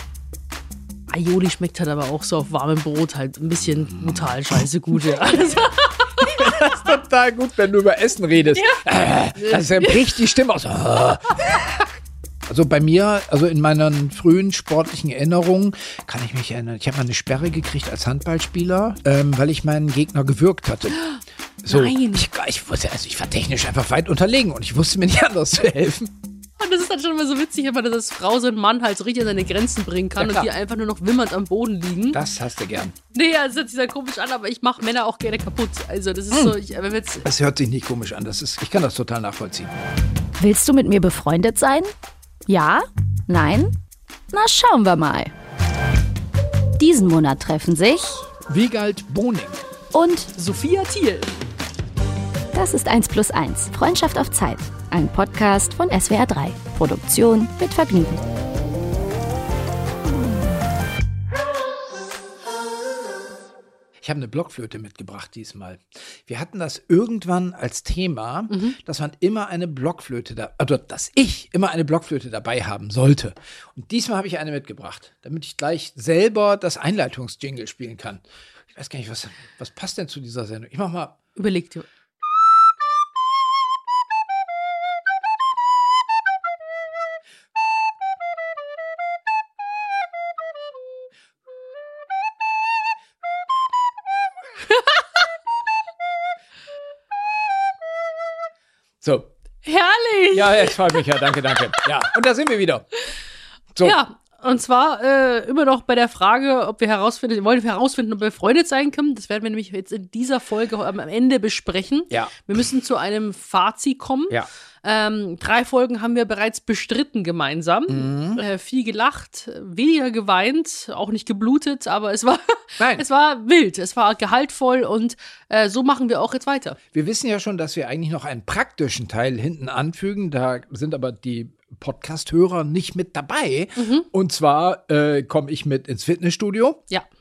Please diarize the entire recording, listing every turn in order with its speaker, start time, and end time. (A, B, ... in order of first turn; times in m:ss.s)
0:01.1-0:06.5 A
0:03.9-0:04.6 B
0:06.2-0:11.8 B
0:08.6-0:08.8 A
0:09.4-0:10.0 A
0:12.5-0:21.0 B
0:21.0-0:22.3 A
0:21.6-0:26.1 B
0:26.6-0:32.2 A
0:30.2-0:30.5 B
0:32.1-0:32.9 B
0:33.1-0:37.2 A
0:37.2-0:39.7 B
0:40.4-0:41.9 C
0:42.5-0:43.7 C
0:44.3-0:45.3 C
0:46.8-0:48.3 C
0:48.5-0:49.6 B
0:49.9-0:50.3 C
0:50.4-0:51.3 A
0:52.5-0:58.2 C
1:04.0-1:18.2 B
1:08.5-1:08.8 A
1:18.7-1:21.2 B
1:21.4-1:21.8 A
1:39.0-1:39.3 B
1:39.6-1:41.0 A
1:40.3-1:42.9 B
1:43.8-2:06.8 A
1:52.1-1:52.6 B
1:57.9-1:58.4 B
2:02.8-2:03.0 B
2:06.9-2:16.8 B
2:13.8-2:14.1 A